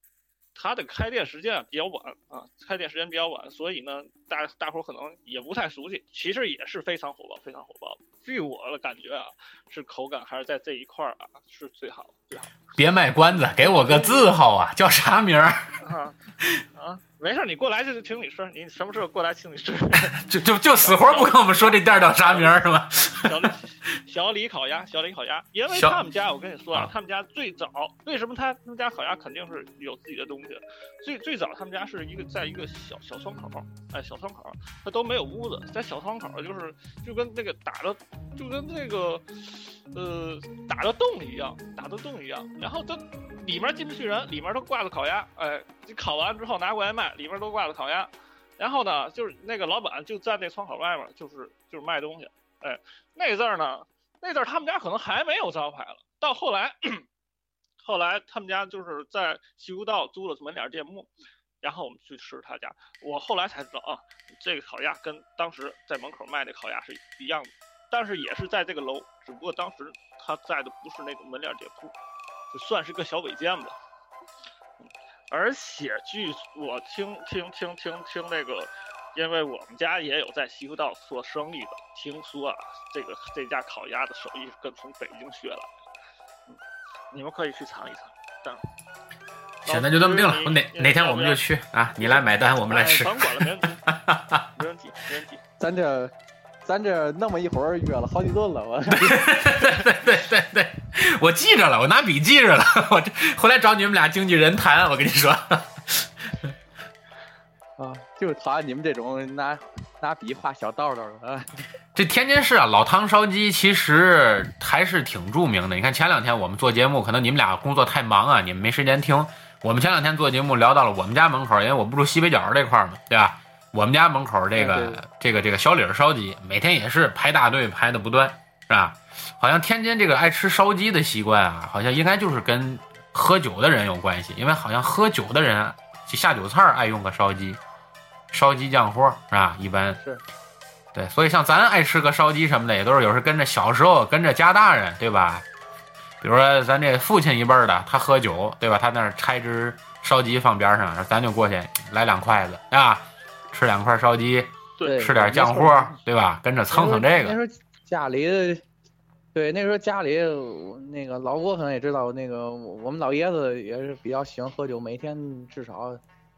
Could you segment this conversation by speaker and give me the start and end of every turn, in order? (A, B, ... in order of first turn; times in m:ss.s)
0:00.5-0:12.5 A
0:12.7-0:15.7 B
0:13.6-0:14.3 A
0:15.8-0:16.2 A
0:16.7-0:20.1 A
0:20.0-0:23.5 B
0:20.8-0:57.0 A
0:25.7-0:26.0 B
0:57.8-1:01.1 A
1:01.6-1:11.9 A
1:12.5-1:13.8 A
1:14.8-1:25.7 A
1:27.1-1:28.6 A
1:29.6-1:31.4 A
1:29.6-1:34.4 B
1:32.0-1:33.8 A
1:34.5-1:35.4 A
1:35.6-1:39.7 C
1:38.9-1:46.5 B
1:47.8-1:51.6 C
1:51.9-2:17.6 B
2:04.5-2:05.0 C
2:18.3-2:20.0 B
2:20.9-2:25.4 B
2:26.2-2:37.4 B
2:34.8-2:36.0 C
2:36.7-2:38.6 C
2:39.3-2:46.0 C